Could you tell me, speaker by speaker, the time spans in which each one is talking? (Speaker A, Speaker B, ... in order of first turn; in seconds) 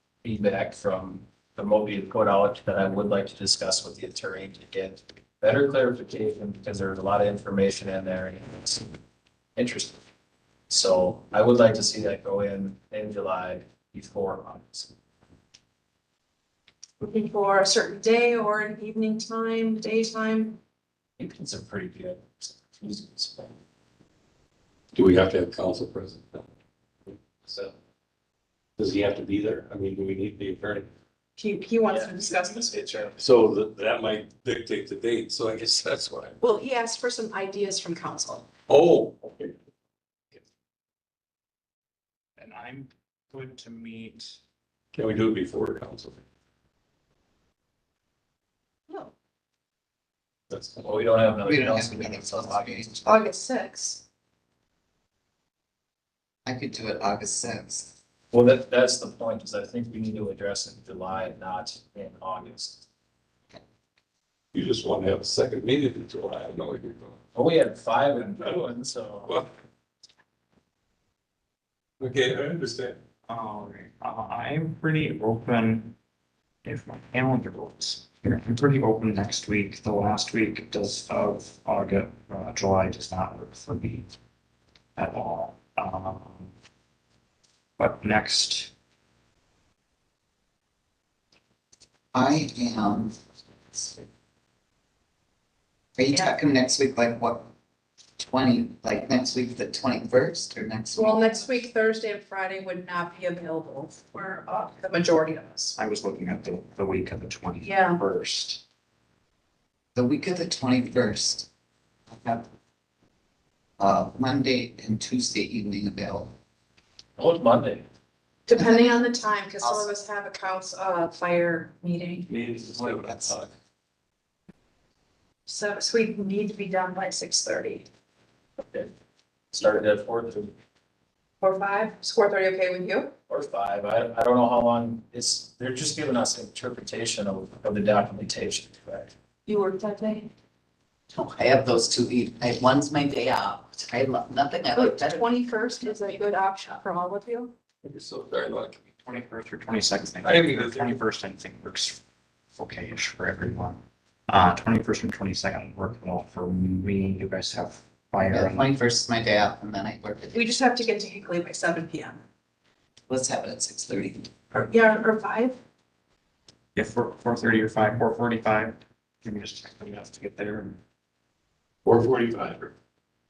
Speaker A: 0.2-8.9, 9.6-10.0, 10.7-14.9, 21.2-23.6, 31.9-33.2, 50.5-53.1, 58.3-62.8, 67.3-69.4, 117.2-117.8, 129.5-130.5, 133.3-139.1
Speaker B: 17.0-20.6, 31.4-33.1, 36.4-38.5, 53.0-54.0, 96.1-96.3, 100.9-105.8, 107.6-108.0, 118.5-122.3, 125.5-127.9, 131.4-133.1, 139.5-140.3, 144.7-147.5, 160.3-162.2, 164.5-165.6
Speaker C: 24.9-26.5, 27.1-27.7, 28.8-30.9, 33.2-36.4, 38.7-39.5, 44.9-46.2, 64.5-67.2, 68.2-68.6, 72.0-73.0, 122.3-123.5, 147.8-148.8, 150.2-151.0, 171.8-172.7
Speaker D: 42.4-44.4, 73.3-76.0, 76.6-84.1, 85.0-86.5, 87.8-88.7, 105.8-108.6, 149.0-152.0, 152.5-158.7, 166.8-170.8
Speaker E: 51.4-53.1, 56.5-58.0, 92.1-93.2, 93.7-94.0, 96.0-97.5, 98.2-101.7, 110.0-111.5, 112.1-112.5, 113.8-116.3, 118.6-119.0, 119.6-119.9, 122.8-123.3, 141.1-145.3, 158.3-160.4, 163.1-164.4